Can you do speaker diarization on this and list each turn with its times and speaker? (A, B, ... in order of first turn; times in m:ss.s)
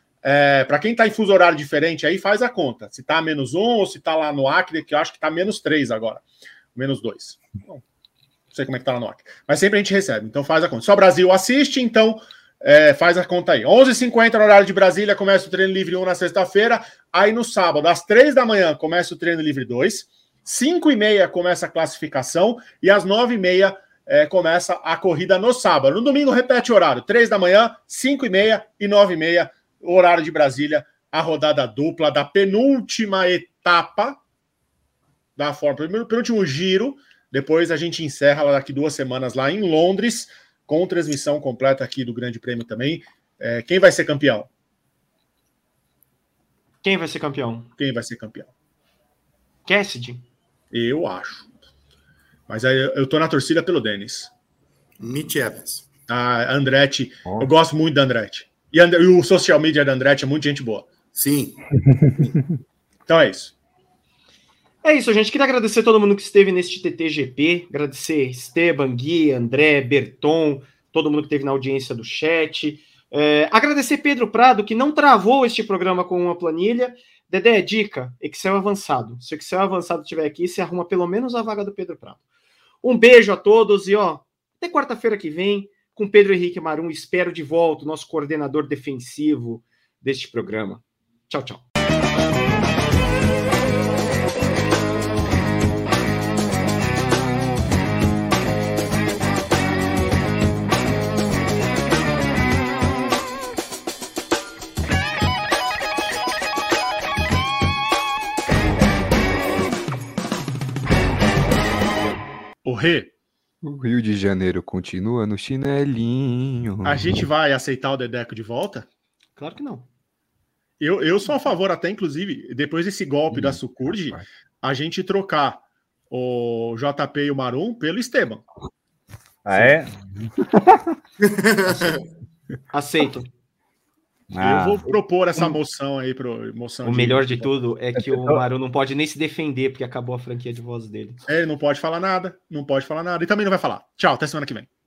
0:00.2-0:06.2 A
0:06.7-0:07.8 A
0:08.5-0:34.2 A
0:35.4-0:44.5 A
0:46.8-0:47.7 B
0:47.8-0:48.5 A
0:49.6-0:50.2 B
0:50.7-0:51.5 A
0:52.5-0:54.3 A
0:55.0-0:55.8 C
0:56.1-1:00.9 A
1:01.1-1:02.3 C
1:03.1-1:03.5 A
1:04.8-1:22.2 B
1:22.8-1:31.6 B
1:52.6-1:53.1 A
1:53.6-1:57.2 D
1:56.8-1:58.9 A
1:59.4-1:59.9 B
2:00.8-2:08.4 A
2:03.8-2:04.2 D
2:09.4-2:10.9 E
2:11.2-2:12.0 C
2:12.7-2:13.3 B
2:14.3-2:14.9 E
2:14.4-2:17.5 A
2:16.8-2:21.2 B
2:18.0-2:18.4 E
2:21.3-2:24.7 A